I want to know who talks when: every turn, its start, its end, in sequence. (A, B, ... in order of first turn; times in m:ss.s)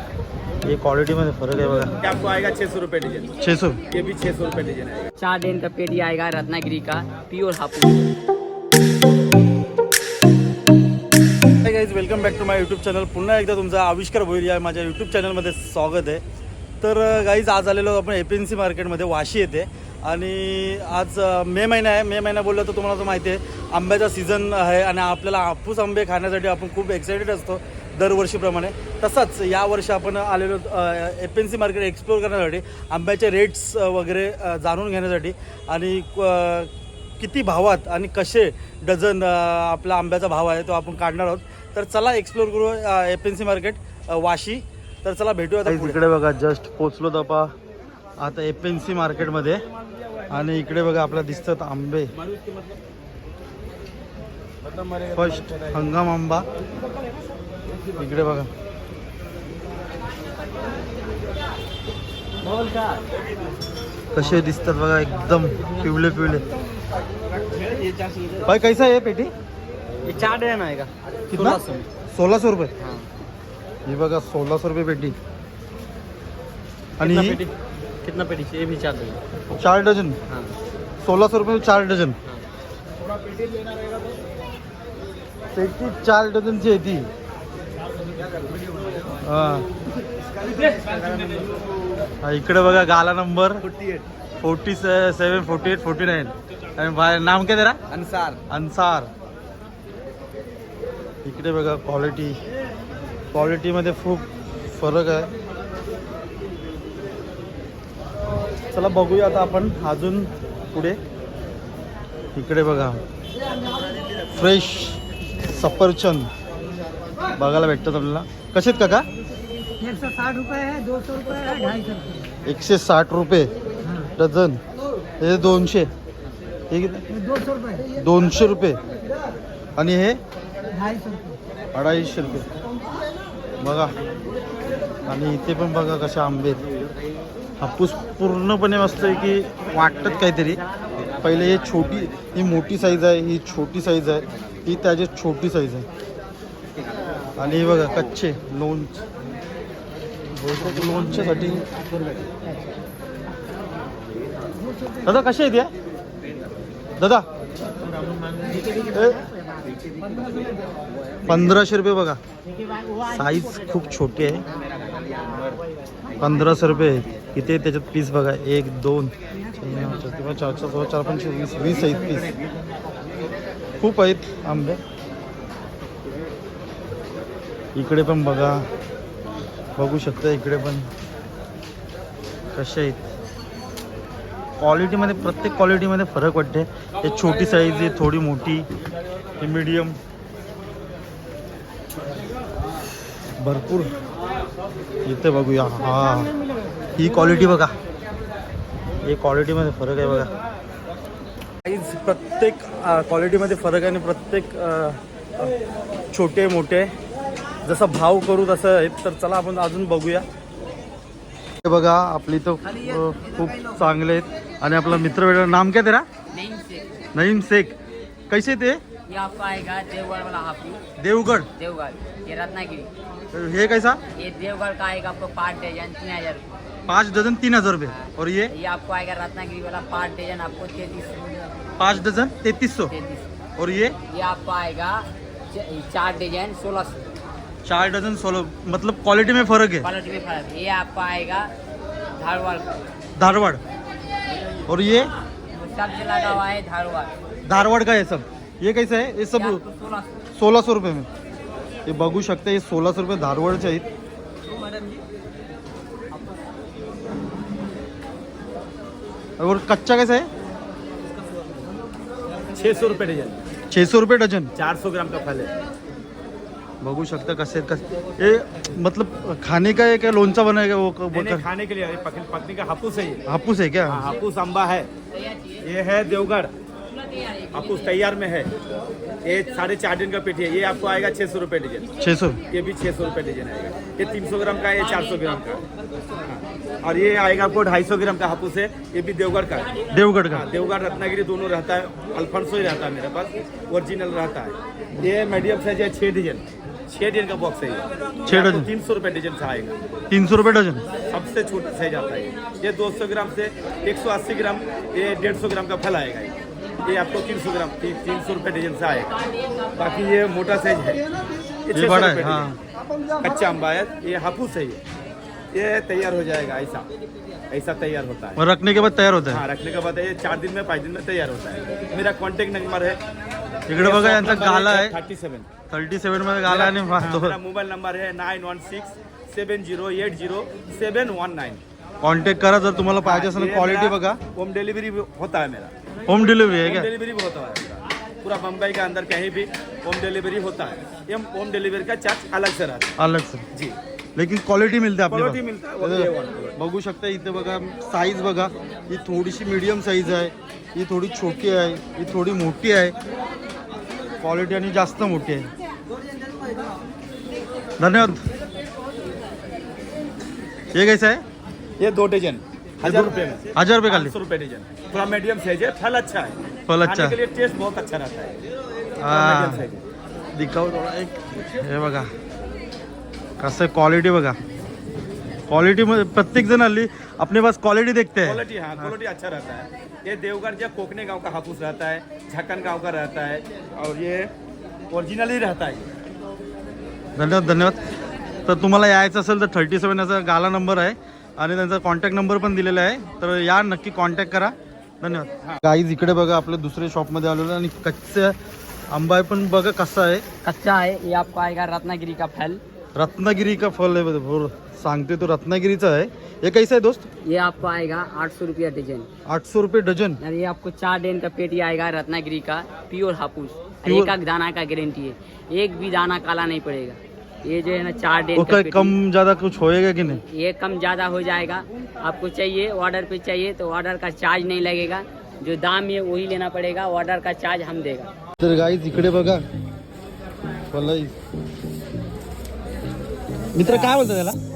0:00.6-0:01.9 A
0:02.0-0:03.3 B
0:03.4-0:03.8 A
0:03.9-0:05.1 B
0:05.2-0:08.0 C
0:11.6-0:16.2 A
0:16.8-0:47.5 A
0:48.2-0:49.6 A
0:50.3-0:52.1 A
0:55.0-0:56.5 A
0:58.0-0:58.5 A
1:04.1-1:06.4 A
1:08.1-1:08.4 D
1:08.4-1:09.3 A
1:10.1-1:10.9 D
1:10.1-1:10.9 C
1:11.3-1:12.7 A
1:11.4-1:11.7 C
1:13.8-1:15.2 A
1:17.0-1:17.4 A
1:18.0-1:19.1 C
1:18.0-1:19.2 D
1:19.5-1:20.2 A
1:21.0-1:22.2 A
1:25.5-1:27.1 A
1:29.2-1:29.7 A
1:30.4-1:31.5 B
1:32.2-1:33.6 A
1:33.7-1:34.0 B
1:34.4-1:37.8 A
1:37.9-1:38.4 B
1:38.5-1:39.1 A
1:41.2-1:42.4 A
1:43.3-1:45.3 A
1:48.7-1:51.0 A
1:52.3-1:53.0 A
1:54.3-1:56.3 A
1:57.4-1:59.1 A
2:00.1-2:01.4 D
2:02.4-2:04.6 A
2:05.2-2:05.9 A
2:06.7-2:07.1 A
2:07.9-2:08.8 A
2:09.8-2:10.2 A
2:11.7-2:12.5 A
2:13.6-2:13.9 A
2:15.0-2:16.6 A
2:17.6-2:20.6 A
2:21.2-2:25.9 A
2:27.4-2:29.0 A
2:30.3-2:31.6 A
2:35.0-2:35.7 A
2:37.0-2:37.2 A
2:38.9-2:39.3 A
2:41.2-2:42.2 A
2:43.1-2:44.4 A
2:46.2-2:52.3 A
2:53.8-2:54.8 A
2:57.7-2:58.7 A
2:59.8-3:00.9 A
3:02.5-3:03.1 A
3:04.6-3:08.7 A
3:09.4-3:10.0 A
3:13.4-3:13.9 A
3:15.0-3:16.3 A
3:17.0-3:17.7 A
3:19.0-3:20.3 A
3:21.6-3:25.5 A
3:26.1-3:26.9 A
3:27.6-3:30.2 A
3:31.6-3:36.0 A
3:36.3-3:36.9 C
3:37.1-3:37.8 A
3:38.3-3:38.8 A
3:39.1-3:40.8 C
3:41.0-3:41.5 A
3:41.5-3:42.9 C
3:43.3-3:44.0 A
3:44.2-3:46.4 C
3:46.9-3:48.5 A
3:48.0-3:51.4 C
3:51.8-3:52.9 A
3:52.9-3:53.3 C
3:53.6-3:54.0 A
3:54.1-3:57.1 C
3:57.6-3:59.9 A
3:59.8-4:01.5 C
4:02.1-4:02.8 C
4:03.2-4:03.6 A
4:04.7-4:05.1 A
4:05.5-4:07.1 C
4:07.4-4:09.6 A
4:09.4-4:10.1 C
4:10.3-4:11.1 A
4:11.8-4:13.8 A
4:19.4-4:20.3 A
4:22.5-4:23.4 B
4:23.7-4:24.5 A
4:24.6-4:25.5 B
4:26.8-4:31.4 A
4:31.1-4:33.2 B
4:33.3-4:34.1 A
4:33.9-4:34.9 B
4:35.6-4:36.5 B
4:37.2-4:37.5 C
4:37.5-4:38.5 B
4:39.2-4:41.9 B
4:42.0-4:42.4 A
4:42.5-4:45.6 B
4:46.2-4:49.7 B
4:49.9-4:50.5 A
4:50.3-4:59.8 B
4:58.3-4:58.7 A
5:00.1-5:00.8 A
5:01.1-5:11.1 B
5:11.6-5:12.5 B
5:11.7-5:12.6 A
5:13.2-5:14.8 B
5:15.5-5:16.9 B
5:17.5-5:18.4 B
5:18.4-5:19.4 A
5:19.3-5:23.0 B
5:23.7-5:24.9 A
5:23.8-5:25.5 B
5:25.7-5:27.4 A
5:26.4-5:31.6 B
5:32.0-5:34.2 A
5:33.0-5:42.9 B
5:36.1-5:36.9 A
5:43.0-5:43.5 A
5:43.5-5:43.8 B
5:44.2-5:52.9 A
5:45.1-5:46.6 B
5:54.2-5:55.5 A
5:57.8-5:58.2 A
6:00.7-6:01.2 A
6:01.8-6:08.4 B
6:02.8-6:04.1 A
6:06.7-6:07.2 A
6:09.0-6:09.6 A
6:09.0-6:09.8 B
6:10.3-6:12.1 A
6:13.4-6:14.4 A
6:15.5-6:18.4 A
6:18.2-6:24.3 B
6:24.9-6:25.9 B
6:27.2-6:27.8 A
6:28.4-6:38.4 A
6:38.9-6:40.2 A
6:40.4-6:42.6 C
6:43.0-6:47.1 A
6:47.2-6:49.1 C
6:49.2-6:50.2 A
6:50.2-6:58.9 C
6:53.8-6:54.1 A
6:58.4-7:00.2 A
7:00.2-7:08.1 C
7:08.4-7:09.4 A
7:10.7-7:11.2 A
7:13.5-7:14.4 A